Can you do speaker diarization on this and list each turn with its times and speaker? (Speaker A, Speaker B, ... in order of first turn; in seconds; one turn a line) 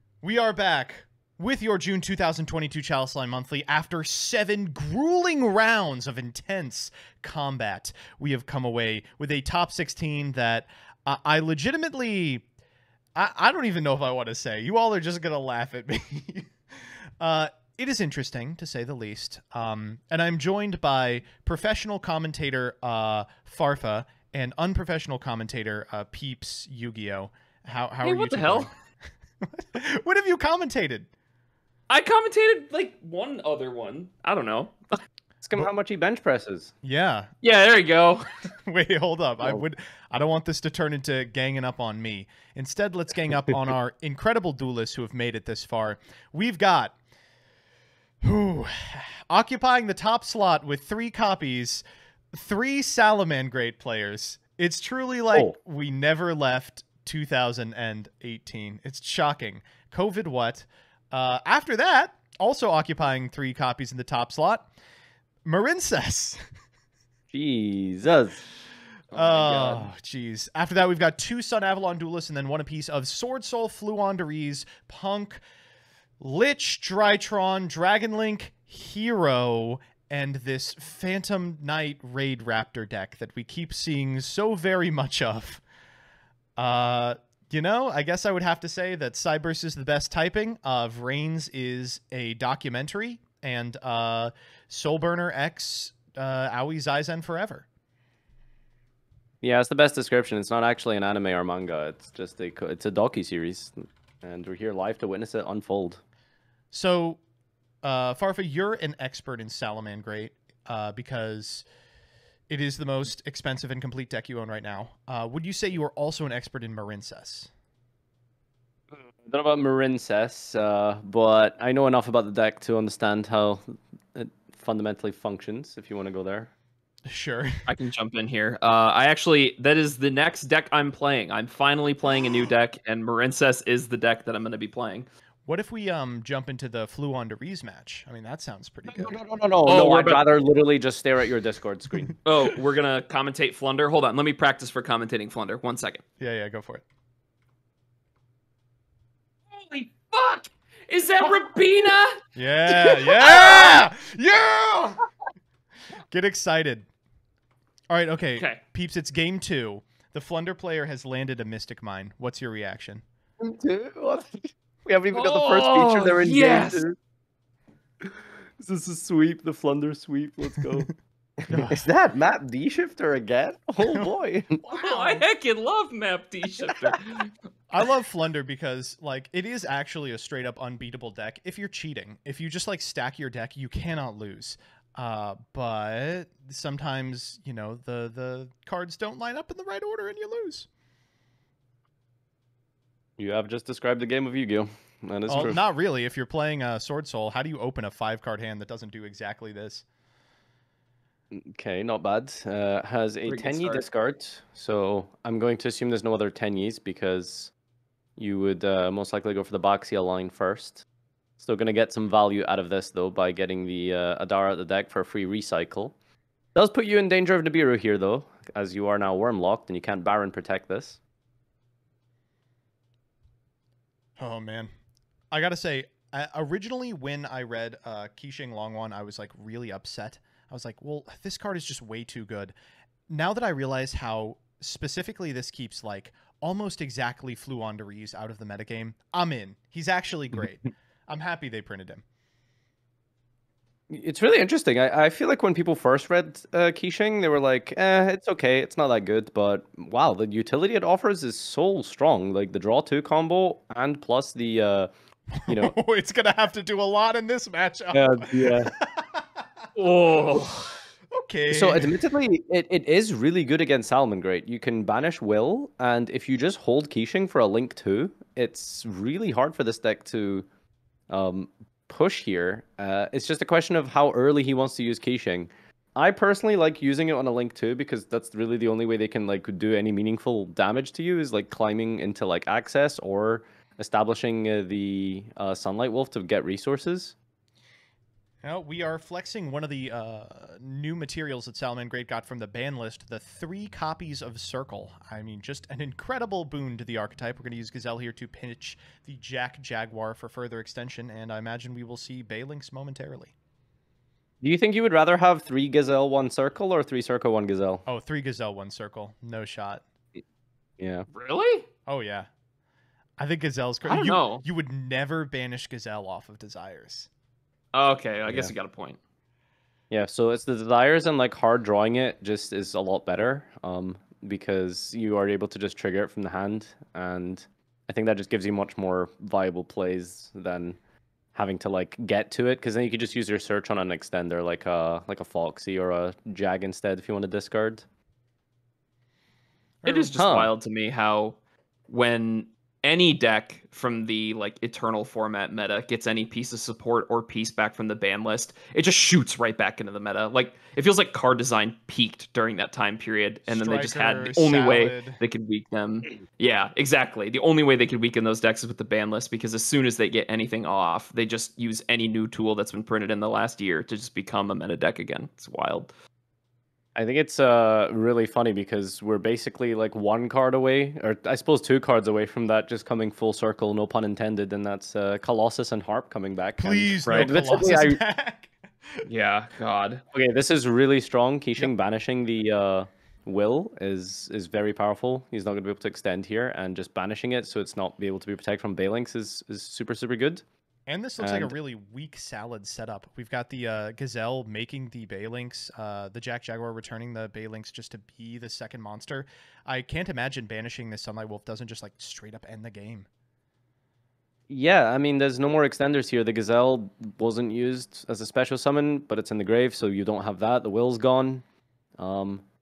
Speaker A: 0.2-12.4
Speaker A: 13.2-28.7
Speaker B: 28.0-28.7
Speaker A: 29.4-31.1
Speaker B: 31.9-34.7
Speaker C: 35.4-36.7
Speaker A: 36.8-37.3
Speaker B: 37.4-38.3
Speaker A: 38.6-47.0
Speaker A: 48.2-64.7
Speaker A: 65.4-66.4
Speaker C: 67.3-68.4
Speaker B: 69.1-69.9
Speaker A: 69.1-75.4
Speaker A: 76.2-85.6
Speaker A: 86.6-97.7
Speaker C: 99.4-106.0
Speaker A: 106.7-107.2
Speaker A: 107.8-111.6
Speaker A: 112.5-117.5
Speaker C: 118.9-126.5
Speaker A: 127.1-127.7
Speaker B: 127.7-135.1
Speaker A: 135.5-139.2
Speaker C: 138.9-142.1
Speaker B: 139.6-140.2
Speaker B: 142.2-146.0
Speaker A: 146.2-146.8
Speaker B: 149.5-153.8
Speaker A: 152.3-155.0
Speaker A: 156.1-156.9
Speaker A: 157.9-163.0
Speaker C: 163.4-167.0
Speaker B: 165.1-166.8
Speaker C: 168.0-174.6
Speaker A: 171.5-171.8
Speaker A: 173.8-174.1
Speaker A: 174.6-175.2
Speaker B: 174.7-177.3
Speaker C: 176.7-177.0
Speaker A: 177.7-190.7
Speaker C: 193.2-195.6
Speaker A: 195.3-199.8
Speaker C: 201.3-207.5
Speaker B: 203.3-203.8
Speaker C: 208.2-210.8
Speaker C: 211.4-215.9
Speaker C: 216.5-221.0
Speaker A: 224.2-224.7
Speaker A: 225.3-232.5
Speaker A: 233.1-242.0
Speaker C: 243.9-254.9
Speaker A: 255.3-259.4
Speaker C: 255.5-255.7
Speaker C: 257.9-258.7
Speaker B: 259.8-260.7
Speaker A: 261.1-261.9
Speaker C: 261.5-270.5
Speaker C: 271.1-287.1
Speaker A: 288.4-303.3
Speaker C: 304.4-307.8
Speaker A: 307.9-309.8
Speaker C: 310.8-311.1
Speaker B: 311.1-311.7
Speaker A: 311.9-312.3
Speaker A: 313.2-317.1
Speaker B: 313.9-314.4
Speaker B: 317.7-319.0
Speaker C: 319.9-330.8
Speaker C: 331.3-337.9
Speaker A: 339.8-340.1
Speaker B: 339.8-341.4
Speaker C: 340.1-340.5
Speaker B: 341.9-365.9
Speaker A: 353.5-355.2
Speaker C: 366.9-378.0
Speaker A: 376.6-379.1
Speaker B: 377.1-377.3
Speaker B: 379.1-380.0
Speaker C: 380.1-390.4
Speaker A: 390.9-403.1
Speaker C: 391.2-391.5
Speaker C: 404.5-411.4
Speaker C: 412.0-412.4